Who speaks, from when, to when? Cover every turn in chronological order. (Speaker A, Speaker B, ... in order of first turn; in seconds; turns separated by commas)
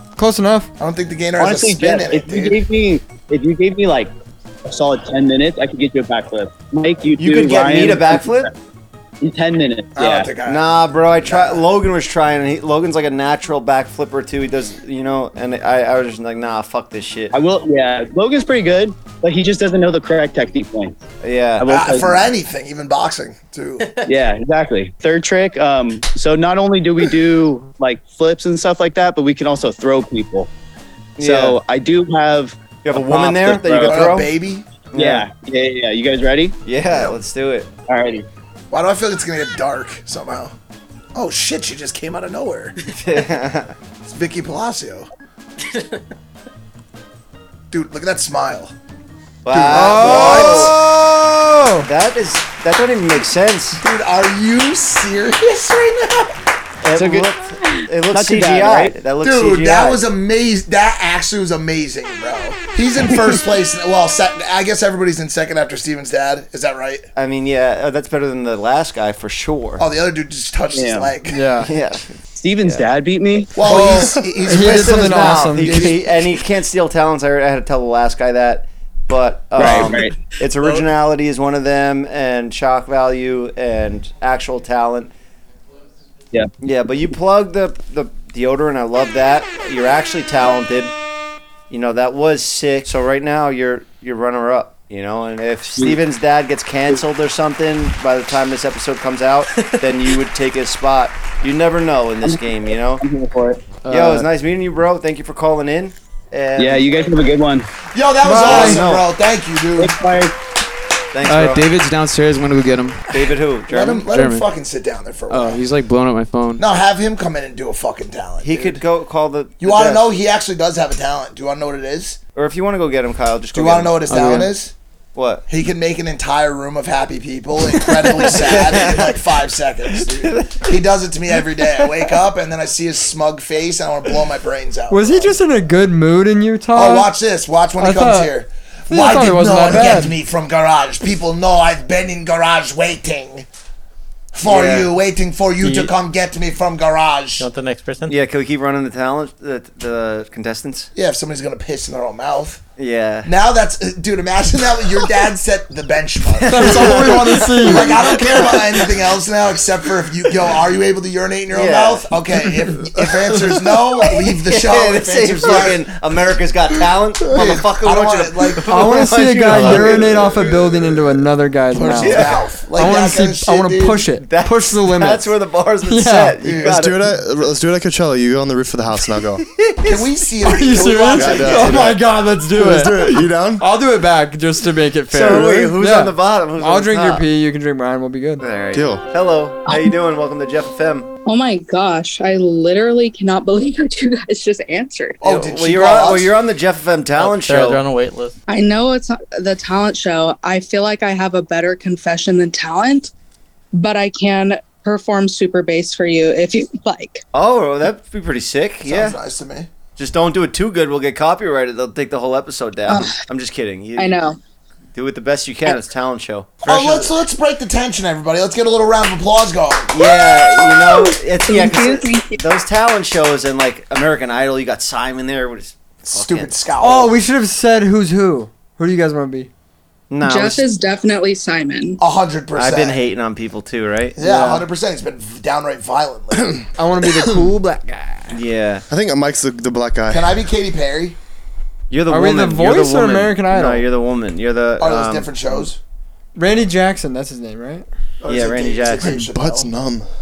Speaker A: 0.2-0.7, Speaker B: 0.8-2.6, Speaker C: 1.4-4.1, Speaker C: 4.7-8.5, Speaker D: 7.2-8.5, Speaker C: 9.2-10.3, Speaker B: 10.0-10.6, Speaker D: 10.4-17.4, Speaker B: 11.2-11.6, Speaker C: 17.3-21.0, Speaker D: 21.2-21.7, Speaker C: 21.6-22.3, Speaker B: 21.7-23.9, Speaker C: 24.1-30.5, Speaker D: 31.2-31.6, Speaker C: 31.2-34.2, Speaker D: 32.8-34.3, Speaker B: 33.9-34.7, Speaker D: 34.9-35.2, Speaker C: 34.9-36.6, Speaker D: 36.6-37.7, Speaker C: 37.9-38.3, Speaker B: 38.7-40.5, Speaker B: 41.1-42.8, Speaker D: 42.9-43.7, Speaker B: 44.0-45.1, Speaker B: 47.7-48.7, Speaker D: 49.5-50.8, Speaker B: 49.5-50.8, Speaker A: 49.7-51.9, Speaker D: 51.8-53.8, Speaker B: 53.8-56.4, Speaker D: 56.8-60.0, Speaker C: 56.9-57.3, Speaker C: 58.1-59.0, Speaker B: 59.2-67.0, Speaker D: 67.2-69.8, Speaker B: 69.8-71.4, Speaker C: 70.7-71.1, Speaker A: 71.3-71.7, Speaker D: 71.6-72.1, Speaker C: 72.3-73.5, Speaker B: 73.5-76.1, Speaker A: 73.6-75.9, Speaker D: 74.6-85.1, Speaker C: 79.6-80.2, Speaker D: 86.6-90.9, Speaker D: 91.7-103.0, Speaker C: 95.7-96.0, Speaker C: 102.2-103.8, Speaker E: 103.8-104.3, Speaker D: 103.9-107.2, Speaker C: 106.6-107.7, Speaker B: 107.9-110.0, Speaker A: 108.2-108.8, Speaker D: 108.4-109.1, Speaker C: 109.8-110.4, Speaker D: 111.1-111.7, Speaker E: 111.2-113.0, Speaker D: 113.1-114.1, Speaker B: 113.7-115.6, Speaker E: 114.1-114.5, Speaker E: 115.3-116.6, Speaker B: 116.6-118.8, Speaker D: 118.4-120.0, Speaker B: 119.6-122.2, Speaker D: 122.4-124.5, Speaker B: 123.5-124.7, Speaker E: 124.1-124.5, Speaker D: 125.2-125.5, Speaker B: 125.5-135.3, Speaker D: 128.2-129.2, Speaker D: 129.9-130.8, Speaker A: 134.9-137.1, Speaker B: 136.7-143.5, Speaker A: 137.8-138.3, Speaker A: 138.9-140.2, Speaker B: 144.3-147.5, Speaker D: 144.4-144.9, Speaker F: 147.4-148.2, Speaker D: 148.1-150.9, Speaker B: 150.9-152.6, Speaker D: 152.8-153.3, Speaker B: 153.2-165.8, Speaker D: 156.4-158.9, Speaker A: 156.5-158.0, Speaker D: 161.5-162.2, Speaker D: 164.0-170.5, Speaker B: 167.2-168.7, Speaker A: 168.7-176.4, Speaker B: 169.5-170.7, Speaker B: 171.8-174.1, Speaker D: 172.0-172.5, Speaker D: 174.2-177.2, Speaker B: 176.4-176.8, Speaker G: 176.6-179.4, Speaker D: 179.5-180.1, Speaker B: 179.8-181.9, Speaker A: 180.4-188.4, Speaker G: 181.2-183.6, Speaker D: 181.5-181.9, Speaker D: 185.1-187.2, Speaker D: 188.4-191.1, Speaker G: 188.7-189.1, Speaker H: 189.7-189.9, Speaker H: 191.3-195.2, Speaker B: 195.2-196.3, Speaker D: 195.2-197.8, Speaker F: 197.2-198.4, Speaker H: 198.5-203.1, Speaker H: 203.7-207.2, Speaker D: 207.3-209.2, Speaker B: 208.9-209.7, Speaker D: 210.0-214.2, Speaker H: 212.9-213.2, Speaker H: 214.0-214.4, Speaker D: 214.9-217.2, Speaker B: 216.6-220.0, Speaker D: 219.9-226.5, Speaker H: 220.6-222.4, Speaker B: 226.1-227.2, Speaker A: 226.8-229.5, Speaker D: 230.1-230.7, Speaker H: 230.2-232.0, Speaker B: 232.0-233.0, Speaker D: 232.6-234.2, Speaker B: 234.2-236.6, Speaker A: 234.2-234.7, Speaker A: 236.8-238.4, Speaker D: 238.3-238.8, Speaker G: 238.9-240.4, Speaker B: 240.1-241.2, Speaker D: 241.9-245.3, Speaker A: 242.1-243.9, Speaker B: 244.8-245.8, Speaker A: 246.4-247.9, Speaker B: 248.2-249.7, Speaker D: 248.3-249.2, Speaker G: 249.0-250.1